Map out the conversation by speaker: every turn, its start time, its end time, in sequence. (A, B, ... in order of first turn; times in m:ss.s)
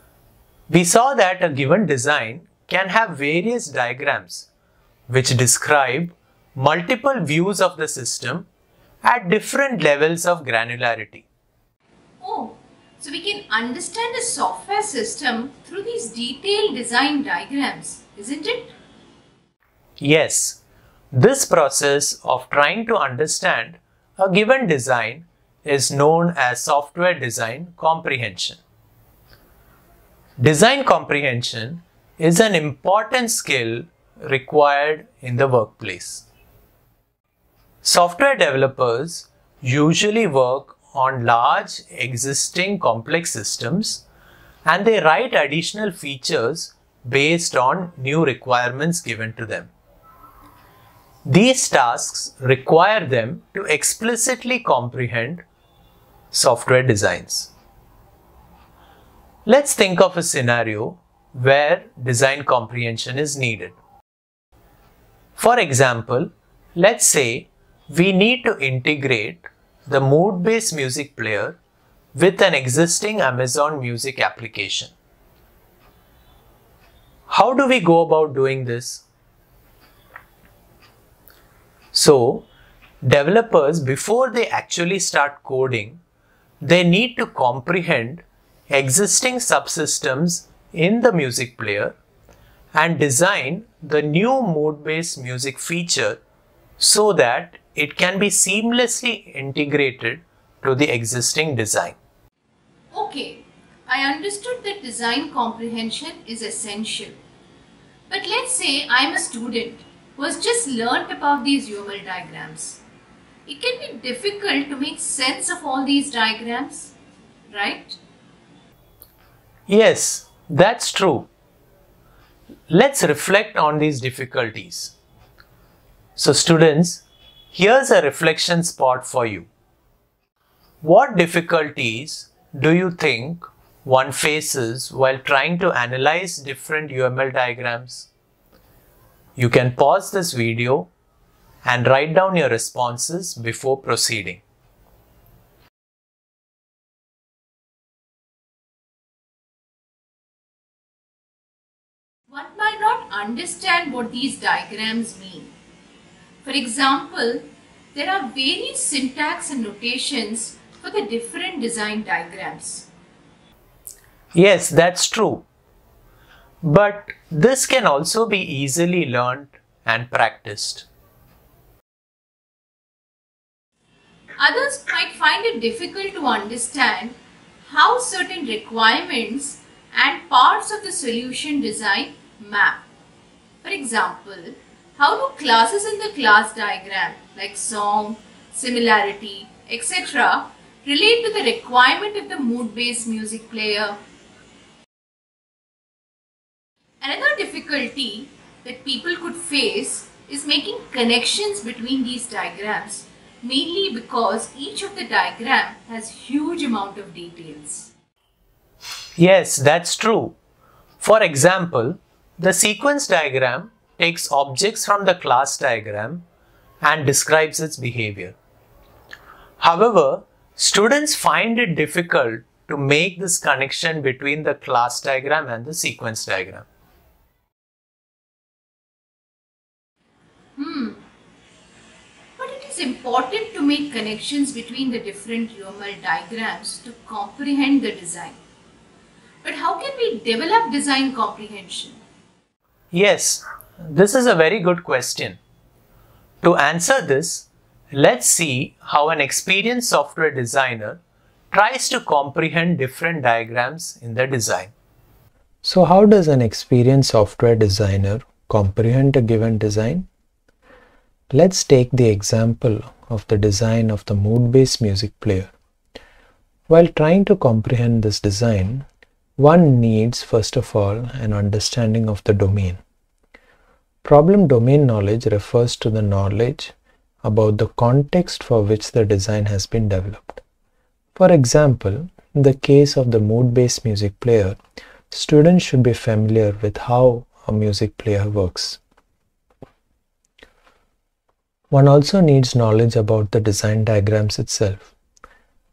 0:00.7-0:04.5 A
0:05.1-0:08.5 A
0:09.0-0:11.2 A
0:12.2-0:18.7 B
0:20.0-0:20.6 A
0:21.1-0:28.6 A
0:30.4-0:36.2 A
0:37.8-0:44.0 A
0:44.6-0:49.7 A
0:51.2-0:55.4 A
0:56.3-0:57.5 A
0:59.4-1:03.7 A
1:05.4-1:11.6 A
1:12.1-1:14.9 A
1:17.3-1:19.0 A
1:21.9-1:22.5 A
1:23.0-1:26.0 A
1:26.6-1:32.0 A
1:32.7-1:36.2 A
1:36.8-1:42.0 A
1:42.9-1:47.2 B
1:48.1-1:52.8 B
1:53.4-1:56.9 B
1:57.5-1:58.0 B
1:59.7-2:01.3 A
2:02.7-2:04.9 A
2:06.2-2:09.5 A
2:10.8-2:18.1 A
2:19.4-2:20.9 A
2:21.6-2:24.4 A
2:32.3-2:35.5 B
2:36.4-2:42.9 B
2:44.3-2:45.4 A
2:46.6-2:50.9 A
2:54.4-3:02.8 B
3:03.6-3:14.0 B
3:17.0-3:27.9 B
3:29.2-3:30.4 A
3:31.0-3:36.2 A
3:36.8-3:38.4 A
3:39.6-3:46.6 A
3:50.6-3:51.0 B
3:52.4-3:58.4 B
3:59.4-4:02.0 B
4:02.9-4:05.4 A
4:06.4-4:11.0 A
4:11.5-4:14.7 A
4:15.6-4:20.1 C
4:21.3-4:25.5 C
4:26.7-4:28.8 C
4:29.4-4:32.8 C
4:34.0-4:40.4 C
4:41.2-4:44.6 C
4:45.1-4:48.8 C
4:51.7-4:54.9 C